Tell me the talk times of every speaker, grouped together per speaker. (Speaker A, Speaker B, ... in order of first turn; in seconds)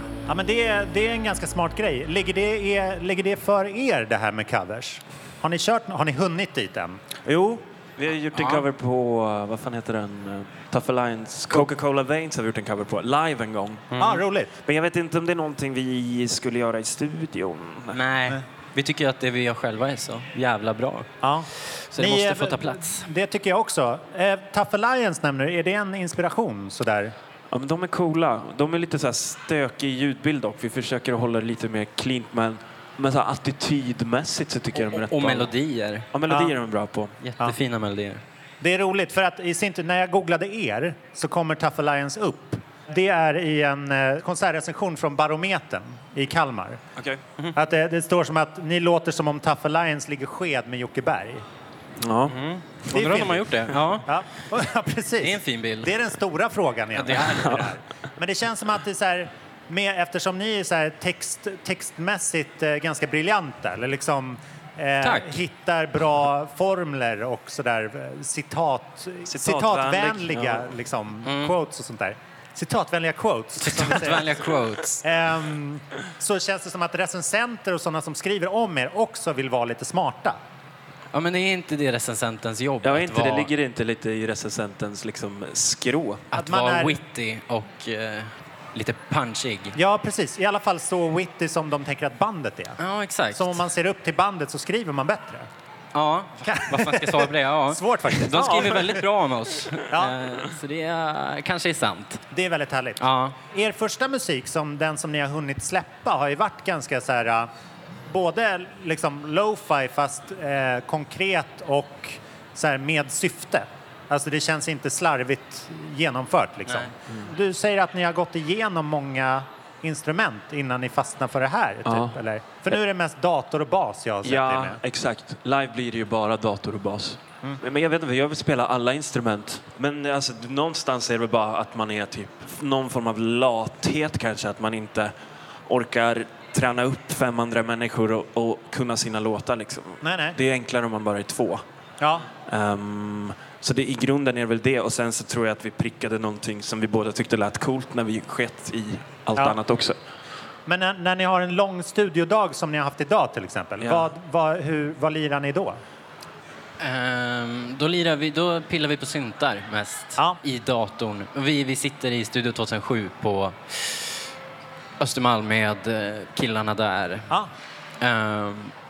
Speaker A: 0.3-7.0, 14.0-14.5, 21.2-27.1, 36.3-36.5, 38.6-46.8, 47.5-51.4, 52.9-53.4, 54.1-74.2, 75.0-80.4, 86.3-87.0, 89.8-92.8, 93.3-95.5, 96.5-98.8, 99.9-100.2, 102.3-107.5, 108.1-124.8, 140.0-140.4, 150.7-155.8
Speaker B: 7.2-13.9, 14.7-18.0, 27.5-35.5, 36.1-37.1, 47.0-47.2, 52.0-52.4, 57.3-57.7, 69.3-70.7, 82.8-86.3, 98.3-99.0, 121.8-122.2, 124.2-135.1, 135.7-141.6, 142.5-150.0, 153.8-154.1
Speaker C: 8.4-8.6, 13.9-14.2, 17.9-21.1, 21.9-23.1, 34.8-36.1, 37.2-38.2, 52.3-54.1, 55.2-55.9, 57.0-57.5, 65.0-65.4, 71.3-71.5, 73.6-75.0, 81.1-83.5, 86.3-89.8, 92.8-93.6, 95.9-102.2, 103.0-103.3, 156.8-164.2, 165.0-167.3, 168.0-168.7